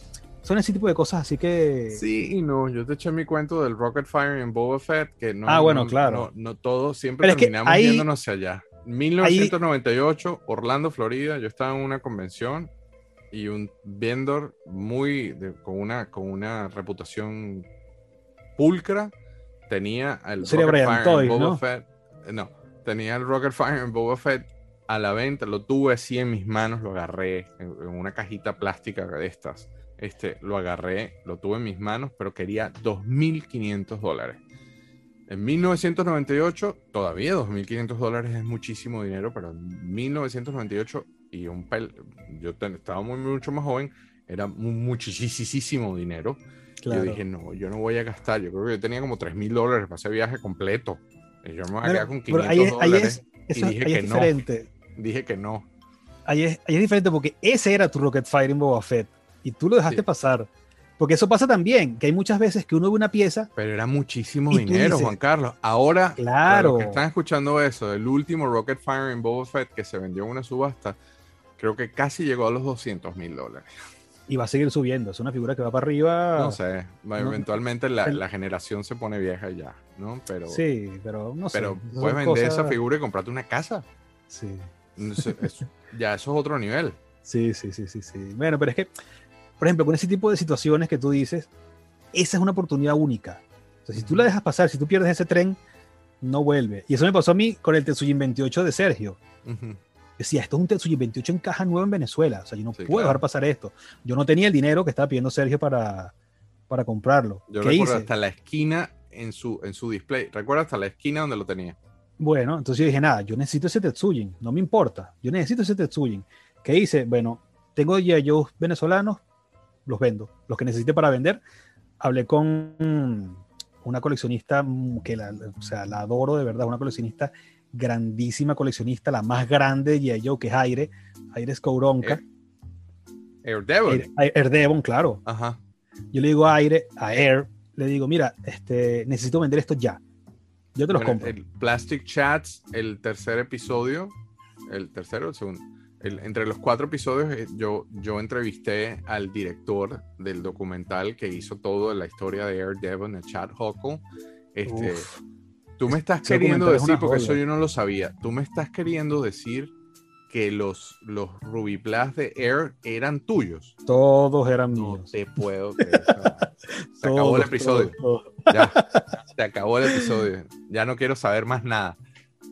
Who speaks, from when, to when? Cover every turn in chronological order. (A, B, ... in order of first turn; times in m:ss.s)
0:00.4-0:02.0 A
0:01.9-0:12.7 B
0:05.5-0:06.3 A
0:07.2-0:08.1 A
0:09.2-0:09.5 A
0:13.3-0:17.7 B
0:18.6-0:19.1 B
0:19.7-0:34.4 B
0:20.4-0:21.6 A
0:35.3-0:54.4 B
0:46.8-0:47.2 A
0:51.8-0:54.7 A
0:54.9-0:55.6 B
0:56.2-1:03.5 A
1:03.6-1:11.0 B
1:04.5-1:05.2 A
1:06.2-1:07.0 A
1:11.6-1:13.7 B
1:14.3-1:16.6 A
1:16.4-1:20.6 B
1:17.2-1:17.5 A
1:20.5-1:22.8 A
1:21.5-1:23.8 B
1:24.3-1:25.5 A
1:25.0-1:27.0 B
1:27.2-1:28.9 A
1:29.6-1:31.5 A
1:32.1-1:35.6 A
1:34.0-1:34.3 B
1:36.2-1:39.2 A
1:39.4-1:39.8 B
1:40.2-1:46.1 A
1:42.7-1:43.2 B
1:46.7-1:48.1 A
1:47.5-1:51.8 B
1:52.2-1:59.2 A
1:59.8-2:01.4 A
2:02.0-2:12.2 A
2:13.4-2:14.1 B
2:13.9-2:15.2 A
2:15.2-2:15.6 B
2:16.1-2:20.0 A
2:20.7-2:21.3 A
2:20.9-2:24.1 B
2:24.7-2:35.1 B
2:34.7-2:35.2 A
2:35.8-2:39.7 B
2:35.9-2:37.4 A
2:40.3-2:43.7 B
2:43.8-2:45.1 A
2:44.7-2:47.9 B
2:47.0-2:49.0 A
2:48.5-2:52.0 B